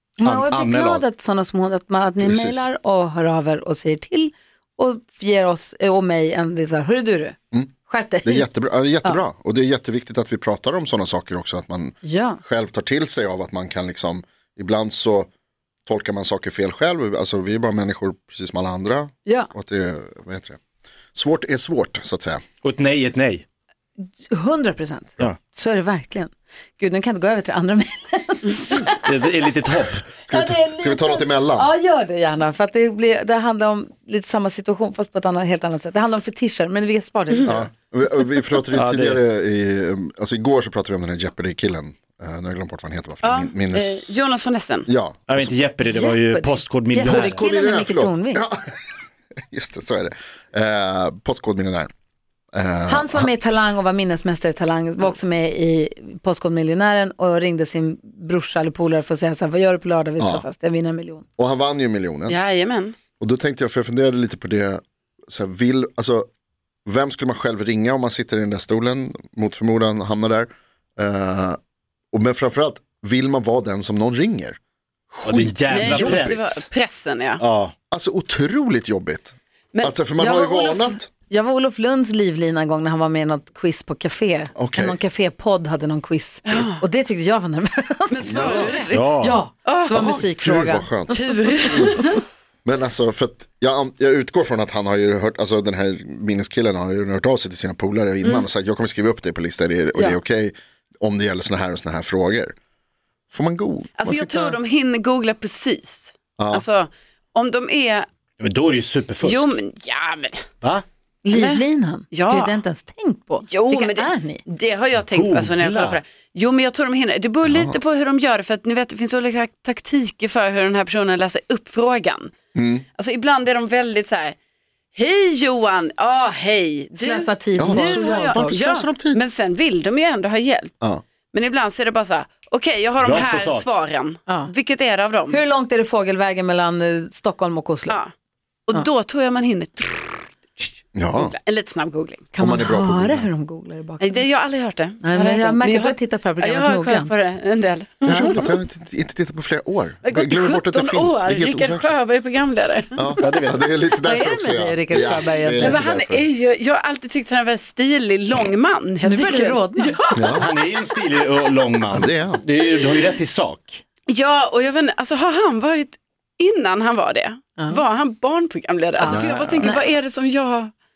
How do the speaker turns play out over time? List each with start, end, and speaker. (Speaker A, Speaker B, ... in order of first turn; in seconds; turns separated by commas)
Speaker A: 0.2-8.5, Speaker B: 0.2-1.0, Speaker C: 2.2-2.7, Speaker C: 8.2-15.3, Speaker A: 12.0-12.4, Speaker C: 15.8-20.6, Speaker A: 19.2-19.5, Speaker C: 21.1-22.4, Speaker B: 22.6-23.4, Speaker A: 24.0-29.1, Speaker B: 29.0-30.1, Speaker C: 30.2-31.7, Speaker A: 30.3-37.6, Speaker C: 37.4-44.2, Speaker B: 38.7-39.2, Speaker D: 43.2-44.9, Speaker C: 44.9-45.6, Speaker B: 45.3-47.4, Speaker A: 45.8-48.4, Speaker C: 47.0-51.9, Speaker C: 52.5-53.3, Speaker A: 52.9-61.2, Speaker C: 60.2-60.4, Speaker C: 61.4-62.4, Speaker D: 62.3-63.0, Speaker C: 63.2-66.3, Speaker C: 66.8-71.6, Speaker C: 72.1-74.6, Speaker C: 75.1-76.4, Speaker B: 75.2-76.5, Speaker D: 75.7-77.4, Speaker B: 77.4-77.7, Speaker C: 77.9-81.1, Speaker A: 80.2-91.1, Speaker C: 84.5-85.0, Speaker D: 86.5-86.8, Speaker D: 88.1-89.1, Speaker C: 88.2-88.7, Speaker B: 88.9-89.5, Speaker D: 89.6-90.1, Speaker C: 89.9-91.2, Speaker D: 91.1-92.2, Speaker C: 92.6-102.5, Speaker C: 103.3-104.6, Speaker D: 104.0-108.1, Speaker C: 106.4-106.6, Speaker B: 108.4-109.5, Speaker D: 109.2-110.4, Speaker A: 111.2-114.4, Speaker D: 111.3-112.6, Speaker D: 113.5-122.3, Speaker B: 115.0-116.0, Speaker C: 117.4-117.8, Speaker C: 122.5-122.8, Speaker D: 122.9-124.3, Speaker D: 124.9-130.7, Speaker A: 127.0-128.6, Speaker C: 127.6-129.2, Speaker D: 131.3-135.4, Speaker B: 133.0-133.7, Speaker A: 134.3-134.5, Speaker A: 135.3-138.0, Speaker D: 138.7-142.3, Speaker C: 140.9-141.3, Speaker A: 142.3-144.3, Speaker C: 142.4-143.3, Speaker D: 144.0-148.5, Speaker A: 145.0-147.1, Speaker C: 148.1-151.9, Speaker D: 150.0-153.1, Speaker C: 153.0-156.3, Speaker B: 153.2-153.6, Speaker A: 154.0-155.8, Speaker D: 155.6-160.0, Speaker A: 159.0-160.4, Speaker C: 160.1-160.5, Speaker B: 160.3-163.8, Speaker C: 161.9-162.4, Speaker D: 164.1-170.7, Speaker A: 169.0-169.8, Speaker B: 169.1-169.7